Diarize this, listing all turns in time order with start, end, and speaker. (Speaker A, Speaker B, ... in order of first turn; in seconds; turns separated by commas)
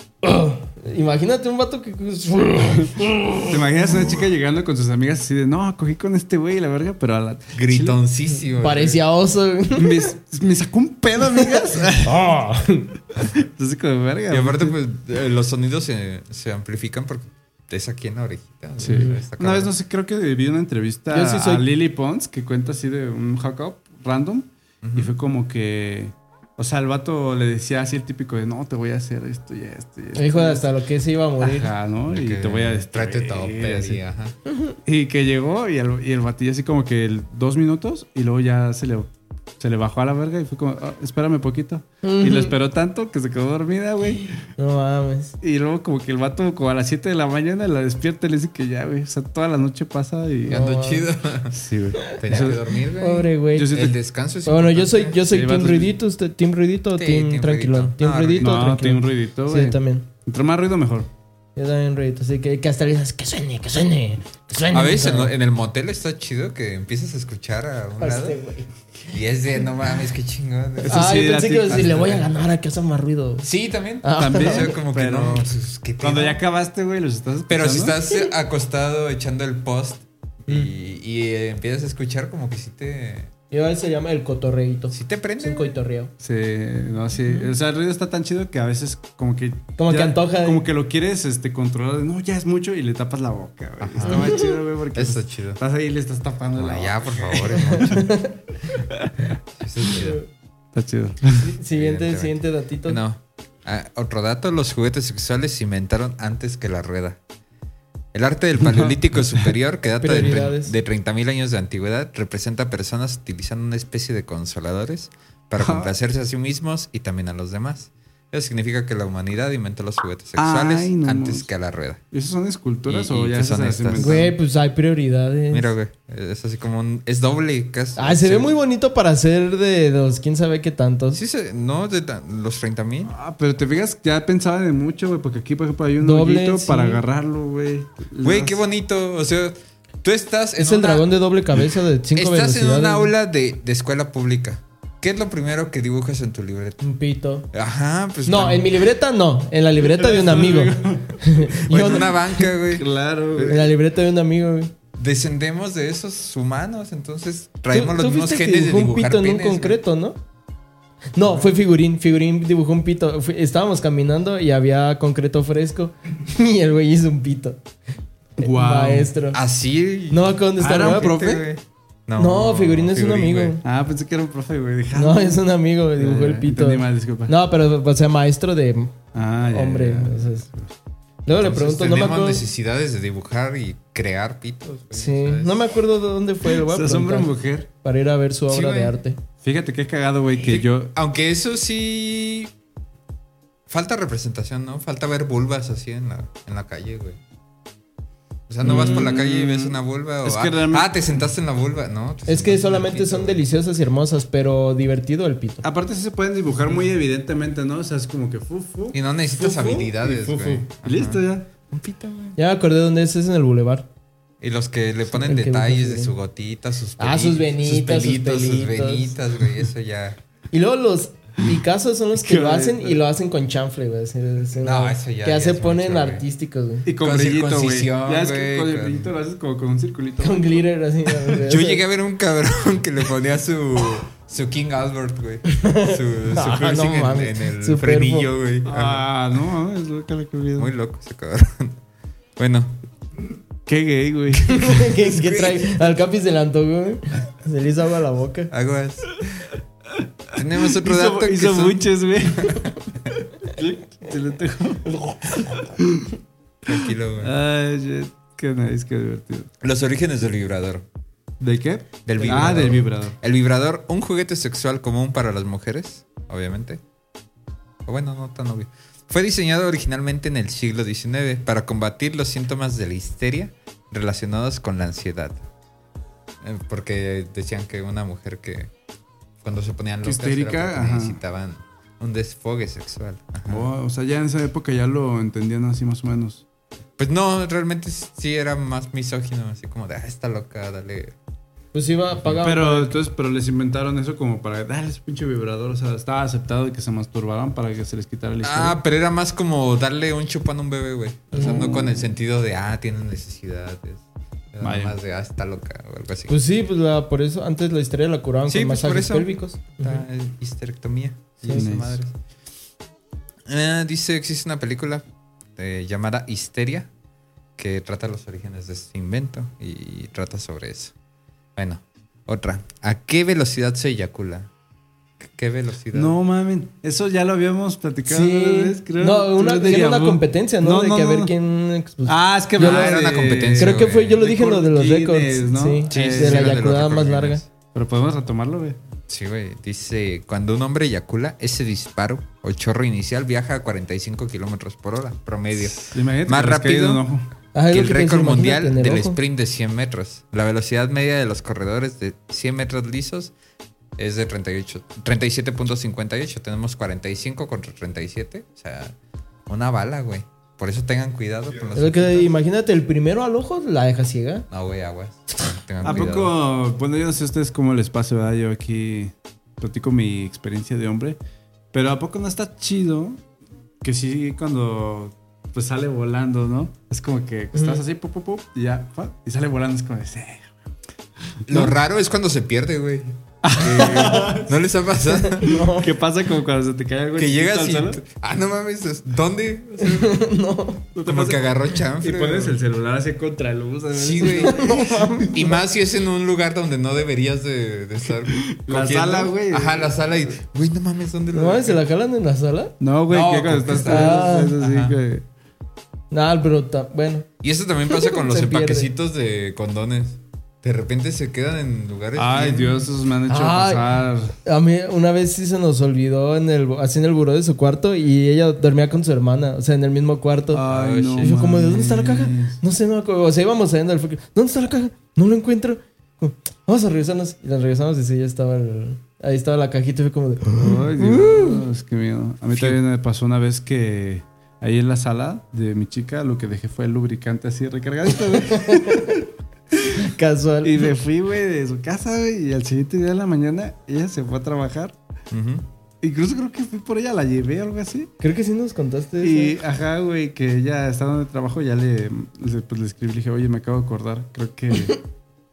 Speaker A: 0.2-3.6, Speaker B: 3.4-8.0, Speaker C: 7.5-9.0, Speaker A: 8.5-10.1, Speaker B: 9.7-12.2, Speaker A: 12.0-13.0, Speaker B: 13.2-14.8, Speaker C: 14.3-19.7, Speaker B: 18.8-30.6, Speaker A: 18.8-19.2, Speaker A: 21.1-21.6, Speaker C: 24.8-25.1, Speaker A: 30.1-31.7, Speaker B: 31.4-34.0, Speaker C: 32.1-34.4, Speaker B: 34.9-39.1, Speaker B: 39.6-44.4, Speaker A: 42.0-42.5, Speaker A: 44.6-45.3, Speaker B: 45.4-50.7, Speaker A: 50.5-51.1, Speaker C: 50.5-51.6, Speaker B: 51.5-52.6, Speaker C: 52.1-55.2, Speaker A: 53.0-53.7, Speaker B: 53.5-54.0, Speaker A: 54.4-60.1, Speaker B: 55.3-56.0, Speaker C: 57.0-58.7, Speaker B: 58.4-61.1, Speaker A: 61.5-65.3, Speaker C: 64.7-68.4, Speaker A: 68.0-68.7, Speaker C: 69.1-71.2, Speaker B: 70.8-72.0, Speaker A: 70.9-73.5, Speaker C: 71.7-72.2, Speaker C: 73.4-76.4, Speaker A: 74.0-74.8, Speaker B: 74.2-75.5, Speaker B: 76.0-78.0, Speaker C: 77.5-83.3, Speaker A: 83.5-86.1, Speaker C: 84.9-85.8, Speaker B: 86.2-98.0, Speaker A: 87.2-87.5, Speaker A: 89.8-90.6, Speaker C: 93.8-95.6, Speaker A: 94.0-94.5, Speaker C: 96.5-98.1, Speaker A: 97.6-98.4, Speaker B: 98.9-99.3, Speaker C: 99.6-100.2, Speaker A: 99.9-100.3, Speaker B: 100.7-101.5, Speaker A: 101.4-103.0, Speaker C: 101.7-107.2, Speaker C: 108.1-122.0, Speaker B: 108.6-109.5, Speaker A: 110.0-110.7, Speaker B: 115.6-115.9, Speaker B: 120.3-121.5, Speaker B: 122.1-124.3, Speaker C: 122.9-124.3, Speaker A: 124.0-125.7, Speaker C: 125.5-128.5, Speaker A: 128.0-131.2, Speaker C: 131.1-133.1, Speaker B: 133.1-138.6, Speaker A: 136.0-137.0, Speaker C: 138.2-141.1, Speaker A: 140.6-143.1, Speaker C: 142.1-146.8, Speaker A: 146.8-147.5, Speaker C: 147.5-148.7, Speaker A: 148.2-152.4, Speaker B: 149.8-153.7, Speaker C: 151.7-152.8, Speaker A: 153.4-154.7, Speaker C: 154.9-159.8, Speaker A: 157.7-160.2, Speaker A: 161.1-167.6, Speaker A: 168.4-169.4, Speaker B: 168.4-169.1, Speaker C: 169.3-173.6, Speaker A: 170.1-171.4, Speaker B: 170.6-171.4, Speaker A: 172.2-173.6, Speaker B: 173.6-177.3, Speaker A: 174.9-180.4, Speaker B: 179.1-180.7, Speaker A: 181.2-182.4, Speaker C: 181.4-185.6, Speaker A: 184.9-187.3, Speaker B: 186.4-187.7, Speaker A: 187.8-189.2, Speaker C: 188.5-189.0, Speaker B: 189.4-190.9, Speaker C: 190.4-192.5, Speaker C: 193.7-197.2, Speaker C: 198.5-203.4, Speaker B: 198.6-200.9, Speaker A: 202.3-205.6, Speaker B: 205.6-211.5, Speaker C: 208.9-212.4, Speaker A: 212.4-213.9, Speaker C: 214.4-220.2, Speaker A: 215.1-216.1, Speaker A: 217.0-219.1, Speaker A: 220.5-226.8, Speaker B: 222.1-223.0, Speaker C: 224.6-226.2, Speaker B: 226.8-231.4, Speaker C: 227.0-229.1, Speaker A: 230.2-231.8, Speaker C: 231.4-239.1, Speaker A: 235.5-238.3, Speaker B: 238.6-240.7, Speaker C: 240.6-241.8, Speaker C: 242.4-242.8, Speaker B: 243.7-244.9, Speaker A: 244.5-248.5, Speaker C: 245.0-245.8, Speaker C: 248.5-249.5, Speaker C: 250.3-251.8, Speaker B: 250.6-252.7, Speaker C: 252.3-252.7, Speaker B: 253.4-256.1, Speaker C: 256.6-257.3, Speaker B: 257.2-259.5, Speaker C: 259.6-260.8, Speaker B: 261.4-263.1, Speaker C: 262.1-266.8, Speaker A: 262.2-262.8, Speaker C: 267.8-275.4, Speaker C: 276.4-278.7, Speaker C: 279.4-283.7, Speaker B: 280.0-281.2, Speaker B: 283.5-286.4, Speaker C: 287.0-291.1, Speaker A: 291.7-293.0, Speaker B: 292.4-298.8, Speaker C: 298.4-306.4, Speaker A: 301.3-301.7, Speaker B: 301.3-302.1, Speaker B: 304.6-304.9, Speaker A: 306.3-310.0, Speaker C: 308.5-312.1, Speaker A: 311.4-311.7, Speaker B: 311.5-312.0, Speaker C: 313.5-315.1, Speaker C: 315.6-316.9, Speaker C: 317.6-320.9, Speaker C: 321.6-324.5, Speaker C: 325.2-326.1, Speaker B: 325.9-331.3, Speaker A: 328.1-333.0, Speaker B: 332.1-336.6, Speaker C: 332.6-334.2, Speaker A: 333.5-337.4, Speaker C: 335.9-337.4, Speaker B: 337.7-338.8, Speaker C: 339.1-347.0, Speaker B: 345.8-347.2, Speaker A: 347.5-349.2, Speaker C: 347.7-353.3, Speaker C: 354.0-358.9, Speaker C: 359.5-362.3, Speaker A: 361.7-364.5, Speaker C: 364.5-366.3, Speaker B: 365.8-371.2, Speaker A: 365.8-366.1, Speaker B: 371.7-373.2, Speaker B: 373.8-380.5, Speaker A: 377.5-377.8, Speaker B: 381.5-381.7, Speaker C: 381.5-385.6, Speaker B: 383.4-384.5, Speaker A: 383.7-384.4, Speaker A: 385.0-385.9, Speaker B: 385.6-388.0, Speaker C: 387.1-390.2, Speaker A: 389.8-390.9, Speaker B: 390.9-395.1, Speaker C: 391.1-392.6, Speaker C: 393.9-401.8, Speaker A: 394.4-395.6, Speaker B: 398.3-400.0, Speaker A: 401.3-402.7, Speaker B: 402.8-405.2, Speaker C: 403.1-405.0, Speaker A: 403.8-404.6, Speaker A: 406.1-407.3, Speaker C: 407.4-412.9, Speaker A: 407.9-408.9, Speaker B: 412.1-414.3, Speaker A: 413.3-420.6, Speaker B: 420.5-422.6, Speaker C: 420.7-421.4, Speaker A: 421.2-431.6, Speaker B: 430.6-439.2, Speaker C: 432.5-432.8, Speaker A: 438.3-439.2, Speaker A: 439.9-440.9, Speaker B: 440.6-444.9, Speaker C: 445.3-445.6, Speaker B: 446.0-448.1, Speaker A: 448.2-449.6, Speaker B: 449.2-455.0